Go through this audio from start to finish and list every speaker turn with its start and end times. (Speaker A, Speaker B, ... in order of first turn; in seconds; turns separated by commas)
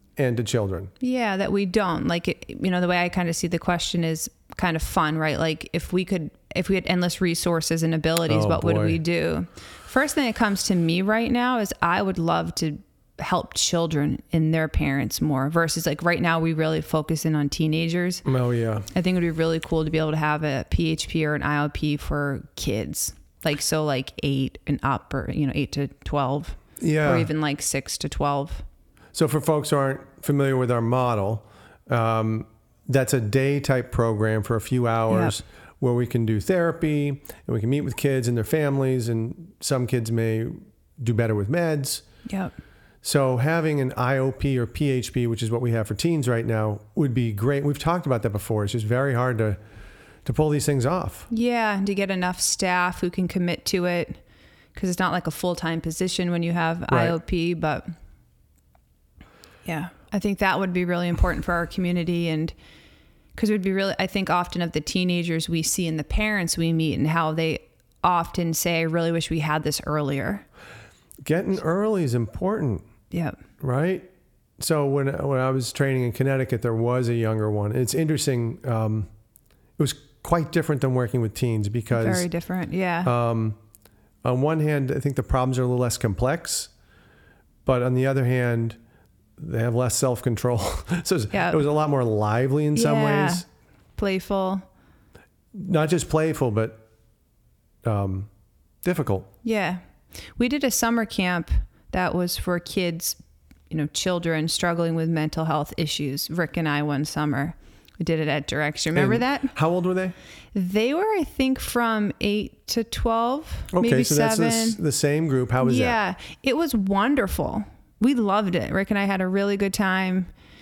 Speaker A: 0.2-0.9, Speaker B: 1.0-18.2, Speaker A: 8.3-9.0, Speaker A: 18.2-18.9, Speaker B: 18.9-28.6, Speaker A: 26.8-27.3, Speaker A: 29.1-42.0, Speaker B: 35.1-35.4, Speaker B: 42.2-42.5, Speaker A: 43.0-49.6, Speaker A: 50.2-51.3, Speaker B: 51.3-54.2, Speaker B: 54.7-57.9, Speaker A: 56.9-57.1, Speaker B: 59.6-62.5, Speaker B: 63.3-70.5, Speaker A: 71.2-72.8, Speaker B: 73.1-73.4, Speaker A: 73.6-79.1, Speaker A: 79.8-82.3, Speaker B: 81.9-83.1, Speaker A: 83.0-83.6, Speaker A: 84.2-86.7, Speaker A: 87.6-88.8, Speaker A: 89.4-93.4, Speaker B: 91.3-91.6, Speaker B: 92.7-93.4, Speaker B: 94.0-94.7, Speaker A: 95.5-96.8, Speaker A: 97.8-98.3, Speaker A: 98.8-99.3, Speaker B: 99.4-99.8, Speaker B: 100.3-103.2, Speaker B: 103.7-109.5, Speaker A: 108.9-110.2, Speaker B: 110.5-114.8, Speaker A: 113.7-116.0, Speaker B: 115.6-120.3